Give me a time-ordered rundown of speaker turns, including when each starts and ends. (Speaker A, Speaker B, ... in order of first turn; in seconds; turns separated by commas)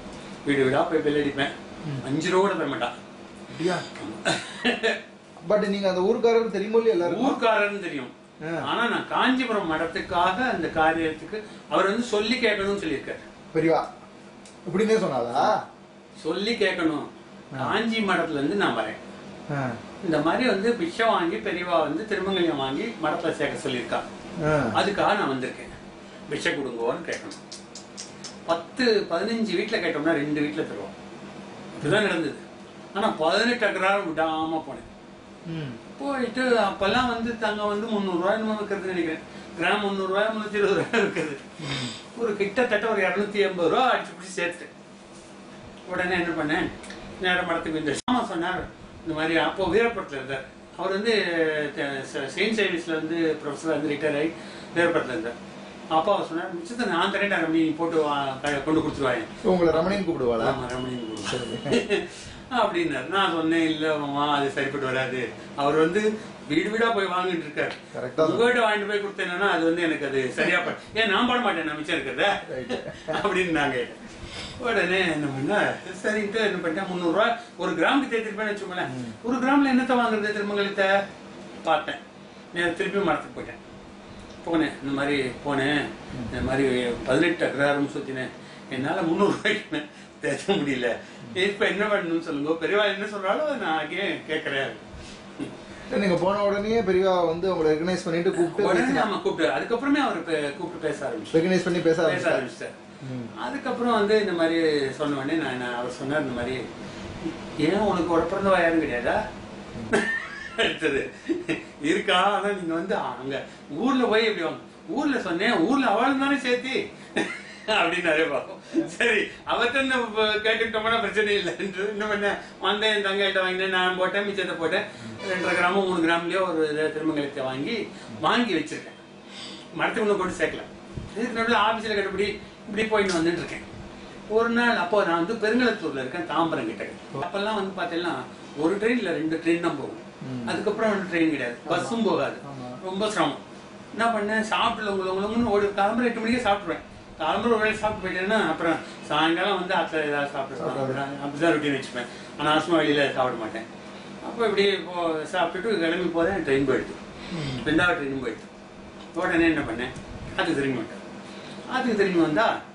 Speaker A: 0.4-2.9, Speaker B: 3.5-3.9, Speaker A: 3.9-5.0, Speaker B: 5.4-7.4, Speaker A: 7.0-13.2, Speaker B: 8.4-8.7, Speaker B: 13.5-13.8, Speaker B: 14.7-15.6, Speaker A: 16.2-19.0, Speaker B: 19.5-19.8, Speaker A: 20.0-24.0, Speaker B: 24.4-24.8, Speaker A: 24.7-25.7, Speaker A: 26.3-27.4, Speaker A: 28.5-30.9, Speaker A: 31.8-32.4, Speaker A: 32.9-34.9, Speaker B: 35.5-35.8, Speaker A: 36.0-44.7, Speaker B: 41.6-41.9, Speaker A: 45.9-55.3, Speaker A: 55.9-80.9, Speaker B: 59.4-60.6, Speaker B: 61.2-61.8, Speaker B: 67.9-68.4, Speaker B: 72.4-73.2, Speaker B: 78.9-79.2, Speaker A: 81.6-82.0, Speaker A: 82.5-83.6, Speaker A: 84.4-94.8, Speaker B: 95.9-99.1, Speaker A: 98.3-102.7, Speaker B: 101.3-102.4, Speaker B: 103.0-103.3, Speaker A: 103.4-106.6, Speaker A: 107.2-109.2, Speaker A: 109.9-129.0, Speaker A: 129.8-133.6, Speaker A: 134.3-143.4, Speaker B: 140.2-140.6, Speaker B: 141.7-142.8, Speaker A: 143.9-153.6, Speaker B: 150.6-151.0, Speaker A: 154.2-157.0, Speaker B: 157.3-157.7, Speaker A: 157.6-158.5, Speaker A: 159.1-161.0, Speaker A: 161.7-162.5